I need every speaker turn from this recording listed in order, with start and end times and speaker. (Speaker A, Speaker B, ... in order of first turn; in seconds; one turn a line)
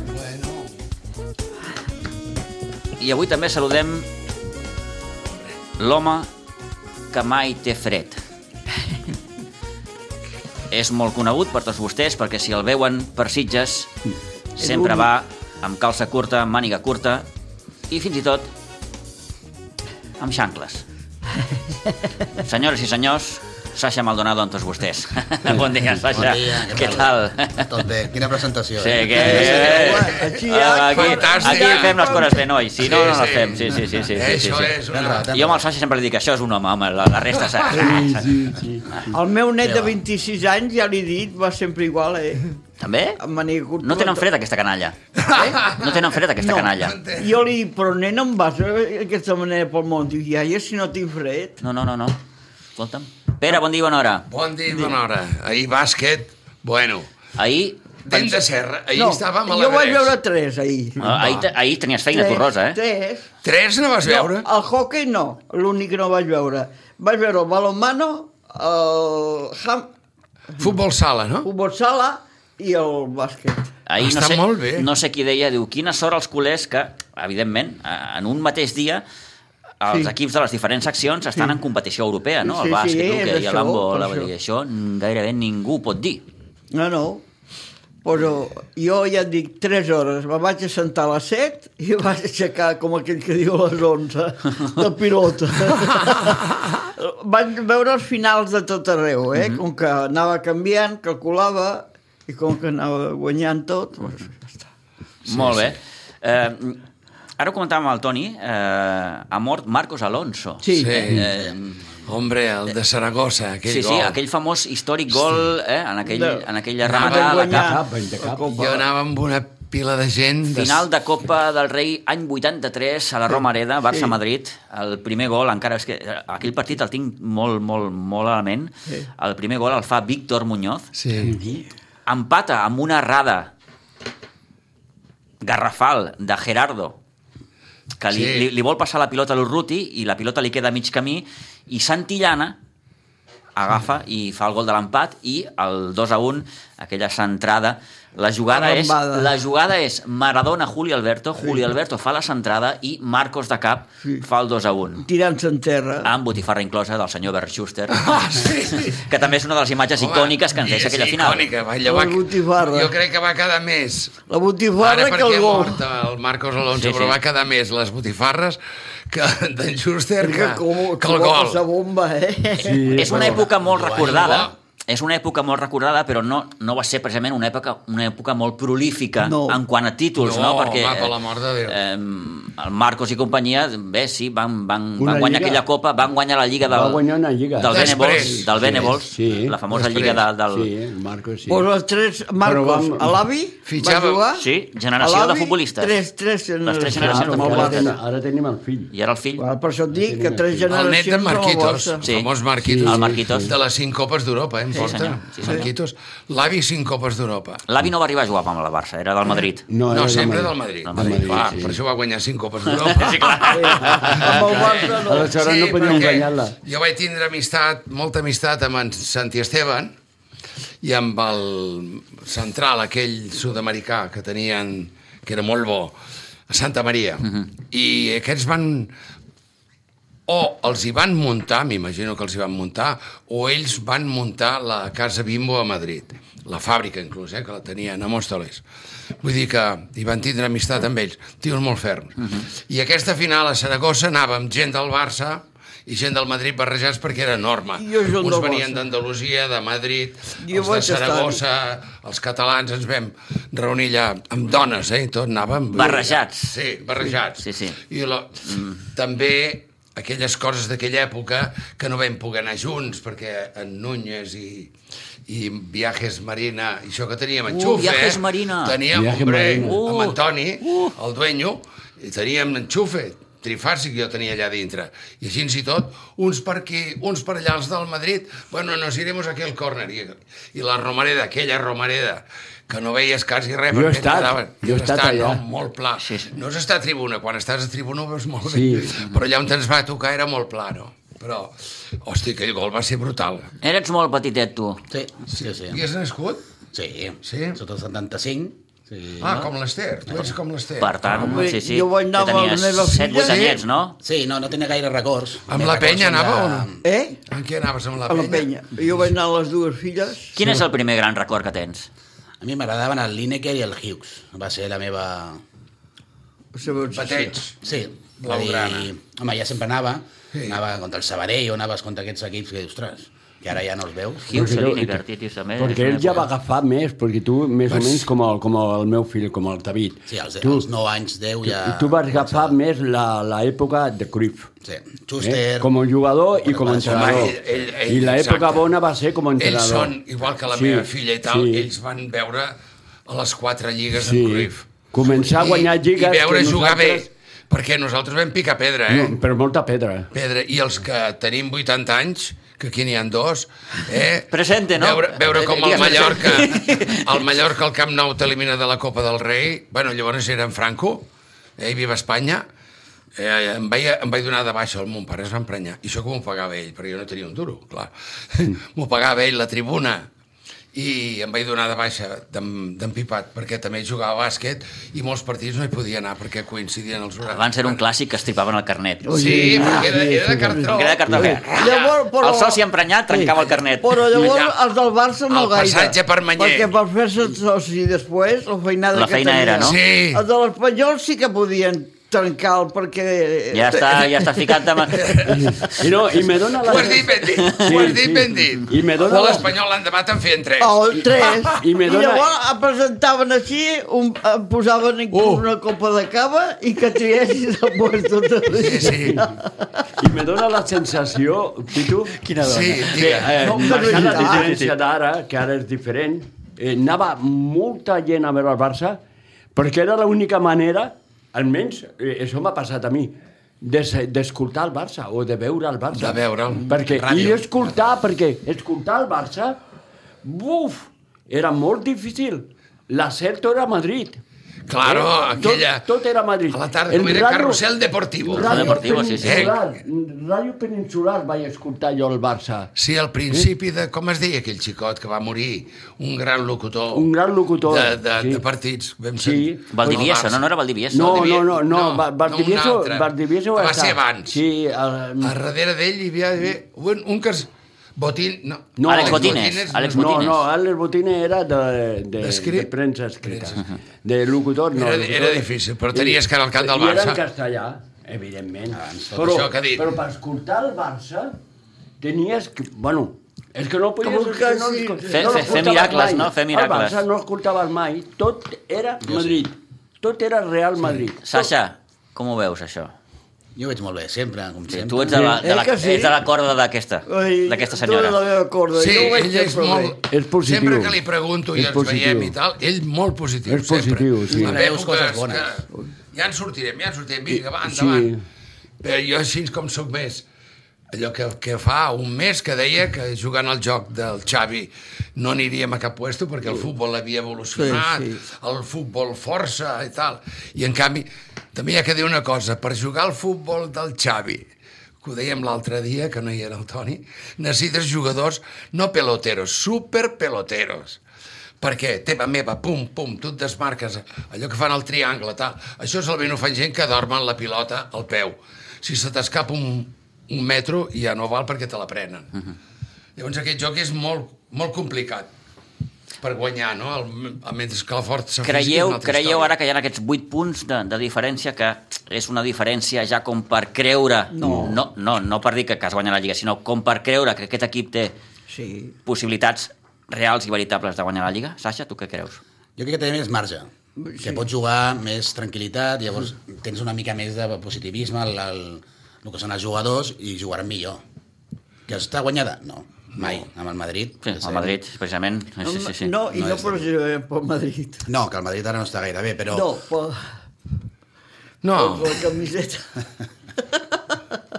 Speaker A: 0.1-0.7
Speaker B: 3.0-4.1
Speaker B: 5.8-6.3
Speaker B: 7.1-8.2
Speaker B: 10.7-13.9
Speaker B: 14.6-17.2
Speaker C: 14.6-15.0
Speaker B: 17.9-18.5
Speaker B: 20.2-20.9
Speaker B: 22.4-27.8
Speaker D: 26.1-30.1
Speaker B: 28.8-38.3
Speaker C: 29.1-32.5
Speaker A: 29.6-32.1
Speaker A: 32.8-35.3
Speaker D: 34.9-35.7
Speaker E: 37.7-39.2
Speaker C: 39.1-42.5
Speaker D: 39.6-40.0
Speaker B: 42.8-43.2
Speaker C: 43.2-44.2
Speaker B: 43.8-47.0
Speaker A: 45.2-46.1
Speaker C: 46.4-51.6
Speaker A: 46.8-47.4
Speaker B: 51.6-52.2
Speaker B: 52.8-54.3
Speaker A: 54.3-57.1
Speaker B: 57.4-57.9
Speaker A: 58.1-60.2
Speaker C: 58.9-61.4
Speaker B: 61.0-62.8
Speaker C: 62.1-63.3
Speaker A: 63.4-64.5
Speaker C: 64.0-69.9
Speaker A: 70.6-71.5
Speaker C: 71.4-73.7
Speaker B: 73.8-79.0
Speaker A: 74.0-74.9
Speaker B: 79.8-86.2
Speaker C: 82.4-84.3
Speaker C: 86.7-87.2
Speaker C: 88.0-104.6
Speaker B: 99.3-99.6
Speaker B: 105.2-106.8
Speaker B: 107.4-111.8
Speaker C: 110.6-111.2
Speaker A: 110.7-111.2
Speaker A: 112.0-114.2
Speaker B: 113.7-117.7
Speaker C: 116.1-118.9
Speaker A: 116.9-117.4
Speaker E: 117.4-118.5
Speaker A: 118.5-120.8
Speaker B: 120.5-130.9
Speaker A: 130.9-131.3
Speaker D: 131.2-131.6
Speaker B: 132.1-133.5
Speaker B: 135.4-137.0
Speaker B: 138.0-142.6
Speaker A: 138.1-138.5
Speaker B: 143.6-155.1
Speaker C: 148.5-149.3
Speaker C: 155.1-156.1
Speaker B: 156.0-161.5
Speaker A: 157.9-159.1
Speaker A: 160.0-164.2
Speaker C: 161.8-162.9
Speaker C: 164.3-165.8
Speaker A: 164.8-171.6
Speaker B: 166.7-167.2
Speaker C: 170.2-172.9
Speaker E: 172.6-173.5
Speaker D: 172.8-174.5
Speaker B: 173.0-181.1
Speaker A: 174.0-174.5
Speaker C: 179.2-179.6
Speaker A: 180.2-181.8
Speaker B: 181.7-187.0
Speaker E: 185.0-185.6
Speaker E: 186.7-191.7
Speaker B: 187.6-190.7
Speaker A: 187.7-188.5
Speaker A: 189.7-190.2
Speaker C: 191.4-194.5
Speaker E: 192.4-193.2
Speaker A: 193.7-194.2
Speaker B: 194.3-195.9
Speaker C: 195.0-198.0
Speaker B: 196.6-197.9
Speaker E: 196.9-198.9
Speaker B: 198.9-199.4
Speaker C: 199.4-202.0
Speaker E: 199.9-200.7
Speaker A: 200.7-207.6
Speaker B: 202.0-202.3
Speaker E: 202.6-203.5
Speaker B: 202.8-203.5
Speaker B: 204.7-205.7
Speaker B: 207.7-209.7
Speaker E: 209.7-211.8
Speaker A: 209.9-219.9
Speaker B: 210.8-211.6
Speaker B: 212.7-214.9
Speaker C: 213.5-215.4
Speaker E: 214.9-216.6
Speaker A: 220.8-225.9
Speaker A: 226.5-228.9
Speaker A: 230.3-238.6
Speaker A: 239.2-264.7
Speaker C: 247.8-248.8
Speaker C: 250.4-251.4
Speaker B: 255.7-256.6
Speaker B: 257.4-257.8
Speaker B: 258.4-258.8
Speaker A: 265.3-293.5
Speaker B: 267.5-268.8
Speaker E: 268.9-269.8
Speaker B: 269.5-270.9
Speaker E: 283.7-285.4
Speaker B: 286.0-286.3
Speaker E: 288.4-289.0
Speaker B: 293.6-294.8
Speaker D: 294.9-295.8
Speaker A: 295.3-296.4
Speaker D: 296.7-299.4
Speaker A: 297.2-297.6
Speaker A: 299.2-301.4
Speaker B: 300.8-304.0
Speaker C: 301.2-303.5
Speaker A: 303.2-303.6
Speaker D: 304.0-306.8
Speaker A: 305.5-306.7
Speaker C: 306.8-307.2
Speaker A: 307.3-308.5
Speaker C: 308.1-310.3
Speaker B: 310.3-311.9
Speaker D: 312.4-315.4
Speaker C: 316.5-317.4
Speaker A: 316.9-317.6
Speaker D: 317.6-324.4
Speaker A: 318.2-318.9
Speaker A: 320.3-320.6
Speaker B: 324.3-326.3
Speaker E: 324.3-325.0
Speaker E: 325.6-330.7
Speaker A: 327.7-328.1
Speaker D: 330.1-332.5
Speaker E: 331.4-334.5
Speaker D: 334.6-335.7
Speaker E: 335.2-337.4
Speaker D: 336.4-337.4
Speaker A: 336.8-338.7
Speaker E: 337.9-339.9
Speaker A: 339.4-349.2
Speaker E: 340.5-341.7
Speaker E: 343.9-347.1
Speaker E: 348.9-350.1
Speaker A: 350.1-361.1
Speaker B: 354.3-357.1
Speaker A: 361.6-362.4
Speaker A: 363.1-370.1
Speaker A: 370.7-377.8
Speaker B: 377.2-379.8
Speaker C: 379.0-395.2
Speaker A: 379.1-382.0
Speaker B: 380.7-384.1
Speaker A: 384.1-384.6
Speaker A: 385.3-386.7
Speaker B: 388.9-389.8
Speaker A: 389.6-390.2
Speaker B: 393.5-395.1
Speaker A: 394.9-395.6
Speaker E: 395.2-399.5
Speaker A: 396.6-401.6
Speaker B: 397.4-397.7
Speaker C: 400.6-409.6
Speaker E: 401.5-402.3
Speaker A: 405.1-405.4
Speaker A: 408.5-409.2
Speaker E: 409.9-412.2
Speaker B: 412.2-414.7
Speaker A: 412.4-413.6
Speaker E: 412.8-419.0
Speaker C: 413.4-414.6
Speaker E: 419.5-429.6
Speaker A: 425.9-427.6
Speaker E: 430.2-434.2
Speaker A: 434.7-435.9
Speaker E: 434.8-437.6
Speaker A: 436.5-439.6
Speaker E: 438.2-442.7
Speaker B: 438.3-439.5
Speaker A: 442.8-447.1
Speaker E: 446.9-448.4
Speaker A: 447.6-450.4
Speaker E: 449.2-450.1
Speaker B: 449.7-451.4
Speaker E: 450.9-455.4
Speaker A: 451.0-454.4
Speaker A: 455.2-460.2
Speaker E: 458.8-471.4
Speaker B: 458.9-460.4
Speaker A: 462.2-462.7
Speaker A: 463.2-463.6
Speaker A: 464.7-467.2
Speaker D: 468.7-469.4
Speaker A: 469.2-469.9
Speaker E: 472.0-481.5
Speaker C: 474.0-475.9
Speaker B: 475.1-477.0
Speaker D: 479.1-479.4
Speaker B: 481.2-482.9
Speaker D: 483.6-485.3
Speaker B: 484.7-488.2
Speaker E: 485.1-485.4
Speaker C: 485.4-486.2
Speaker C: 487.1-489.9
Speaker A: 488.7-498.1
Speaker E: 490.1-491.0
Speaker E: 491.5-492.3
Speaker E: 493.4-494.6
Speaker D: 494.4-495.5
Speaker E: 497.3-498.2
Speaker A: 498.8-500.2
Speaker A: 500.9-514.5
Speaker C: 507.6-508.2
Speaker A: 515.0-521.0
Speaker A: 521.6-532.3
Speaker A: 533.2-535.3
Speaker A: 536.2-539.5
Speaker B: 538.4-548.1
Speaker C: 544.3-544.8
Speaker E: 544.4-544.7
Speaker C: 548.5-548.9
Speaker B: 549.0-552.4
Speaker D: 552.8-553.7
Speaker C: 554.0-554.4
Speaker D: 554.2-561.0
Speaker D: 561.9-564.8
Speaker B: 564.2-566.1
Speaker C: 565.6-568.0
Speaker D: 566.3-566.8
Speaker D: 568.0-569.7
Speaker C: 569.5-570.3
Speaker A: 571.6-572.2
Speaker C: 571.8-573.0